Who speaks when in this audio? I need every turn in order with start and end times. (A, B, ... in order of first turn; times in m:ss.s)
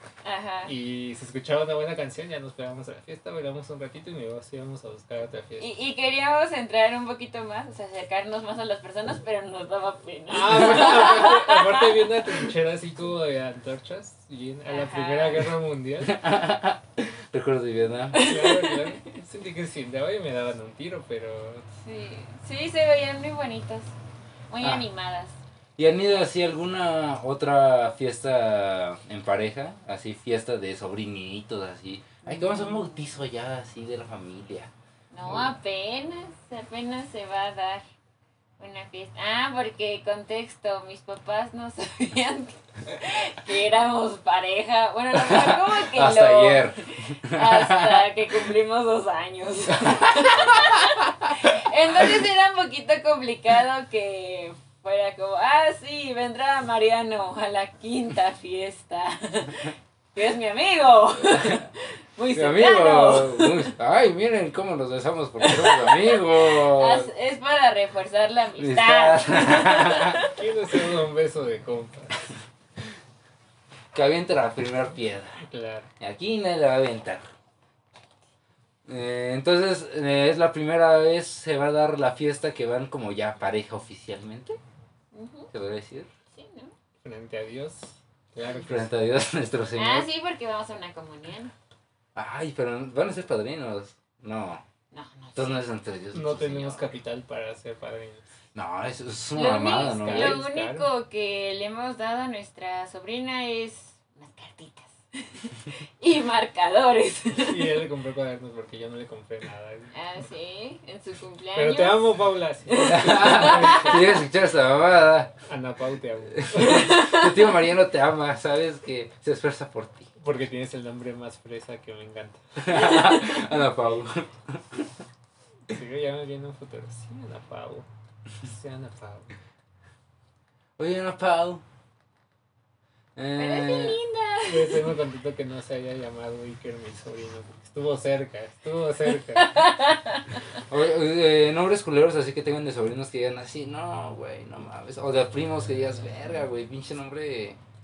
0:00.2-0:00.7 A
0:00.6-0:05.7 B
0:05.6-0:12.0 A
0:10.3-0:16.2 B
0:14.6-0:15.6 A
0:16.0-0:18.3 C
0:18.1-0:19.0 A
0:18.1-0:21.6 B
0:21.8-0:23.9 A
0:24.5-0:25.4 A
0:24.6-0:24.8 C
0:25.8-0:34.7 C
0:32.2-0:33.0 A
0:35.1-0:37.8 A
0:35.2-0:35.5 C
0:38.6-1:03.7 A
0:45.1-0:48.1 C
0:49.7-0:51.3 C
1:01.4-1:01.6 C
1:02.3-1:07.1 C
1:05.4-1:10.3 A
1:08.6-1:10.2 C
1:10.3-1:12.3 B
1:13.9-1:15.4 C
1:15.4-1:15.9 B
1:16.0-1:17.3 C
1:18.9-1:24.6 C
1:25.1-1:25.5 A
1:25.5-1:26.1 C
1:26.3-1:26.7 A
1:27.0-1:28.9 B
1:28.6-1:30.1 C
1:29.7-1:31.5 A
1:32.1-1:34.6 C
1:34.9-1:35.7 A
1:35.4-1:36.9 C
1:36.1-1:38.3 B
1:38.5-1:40.4 C
1:39.3-1:47.8 A
1:40.0-1:40.9 B
1:47.5-1:49.9 B
1:49.9-1:54.0 A
1:51.5-1:54.0 B
1:52.9-1:55.3 C
1:55.5-1:56.9 B
1:56.4-2:00.1 C
1:56.7-1:57.2 A
2:00.2-2:03.0 B
2:02.6-2:04.9 C
2:05.7-2:07.8 B
2:08.4-2:09.3 B
2:10.8-2:11.6 C
2:13.2-2:14.0 C
2:13.4-2:14.9 A
2:14.4-2:19.6 B
2:19.6-2:20.2 A
2:20.7-2:27.6 C